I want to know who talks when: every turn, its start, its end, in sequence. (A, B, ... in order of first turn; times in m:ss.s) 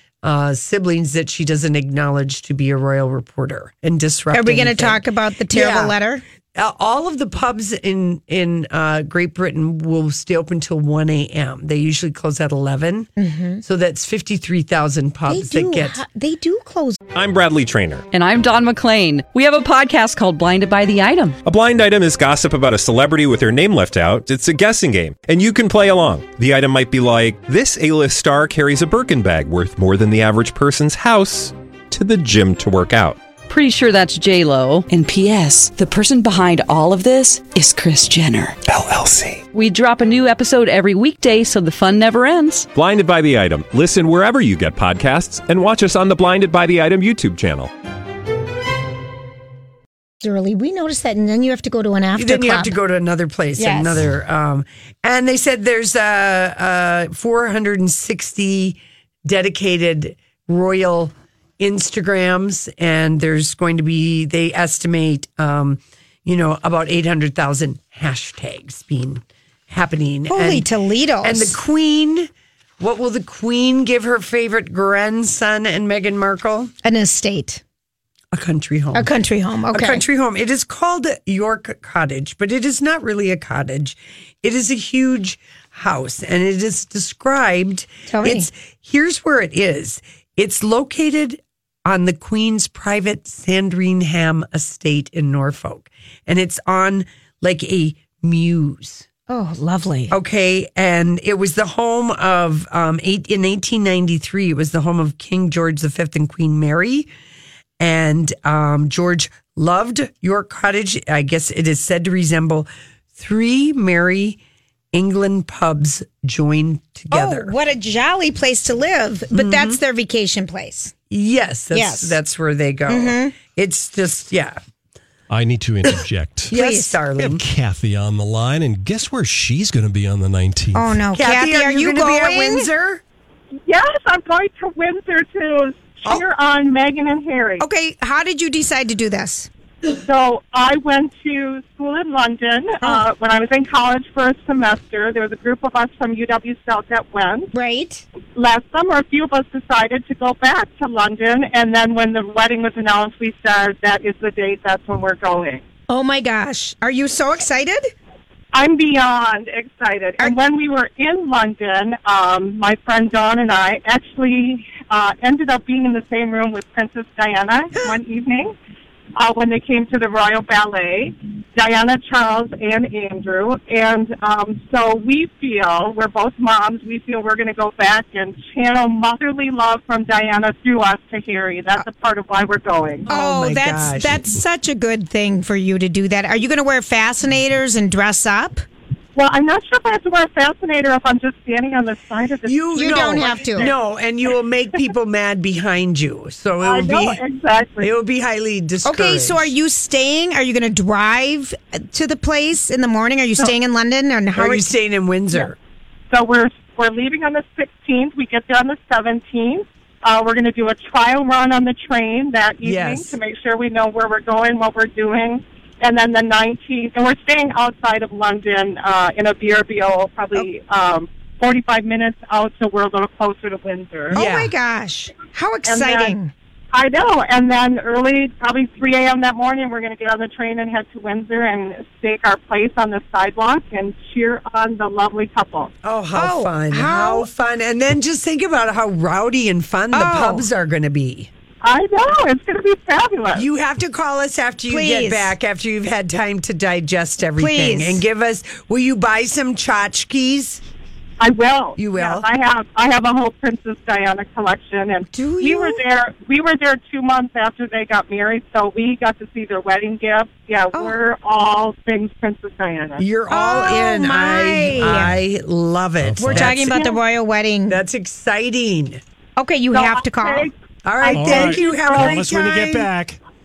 0:00.2-0:06.0 A
0:04.3-0:06.2 B
0:06.6-0:13.1 A
0:13.2-0:13.6 B
0:13.6-0:16.0 A
0:15.3-0:17.0 B
0:17.2-0:18.1 C
0:18.1-0:21.4 D
0:21.4-0:33.2 C
0:33.5-0:38.6 D
0:39.5-0:42.7 D
0:42.7-0:47.7 C
0:50.2-0:52.8 B
0:52.2-1:10.7 A
0:53.6-0:54.0 B
1:10.3-1:11.6 B
1:11.2-1:12.3 A
1:12.8-1:16.7 A
1:16.8-1:17.6 B
1:18.3-1:19.1 A
1:18.9-1:20.0 B
1:19.7-1:39.1 A
1:28.1-1:28.5 B
1:39.3-1:40.2 B
1:40.1-1:47.1 A
1:47.8-1:54.4 A
1:54.9-1:57.5 A
1:57.1-2:00.9 B
1:59.3-1:59.8 A
2:01.1-2:04.6 A
2:01.7-2:02.2 B
2:02.9-2:03.3 B
2:05.3-2:06.5 E
2:06.5-2:07.4 A
2:06.5-2:07.0 B
2:07.2-2:11.0 E
2:10.7-2:12.7 B
2:11.1-2:13.0 A
2:13.7-2:17.6 F
2:17.6-2:19.5 B
2:19.9-2:27.5 F
2:22.8-2:23.1 B
2:27.5-2:28.0 B
2:28.4-2:35.6 F
2:35.9-2:37.9 B
2:38.5-2:48.6 F
2:49.2-3:03.1 F
3:03.1-3:08.6 B
3:03.1-3:04.3 A
3:09.2-3:13.8 F
3:12.5-3:17.2 A
3:12.8-3:13.7 B
3:16.6-3:17.9 F
3:17.8-3:19.5 A
3:18.8-3:24.7 B
3:24.4-3:25.6 A
3:26.1-3:44.2 F
3:32.6-3:33.2 A
3:44.1-3:44.5 A
3:44.1-3:46.3 B
3:45.7-3:46.2 F
3:46.7-3:55.7 F
3:55.8-4:01.3 A
3:56.2-3:57.3 B
3:59.9-4:00.5 B
4:01.6-4:03.4 F
4:03.3-4:10.6 A
4:04.7-4:05.3 B
4:07.4-4:08.0 B
4:11.2-4:23.0 F
4:11.8-4:12.3 A
4:15.1-4:15.8 B
4:20.7-4:21.0 B
4:23.0-4:26.8 A
4:23.3-4:25.2 B
4:26.0-4:26.6 E
4:26.2-4:27.8 B
4:27.7-4:29.0 A
4:29.4-4:30.5 B
4:29.7-4:32.2 F
4:30.8-4:32.9 A
4:31.0-4:33.2 E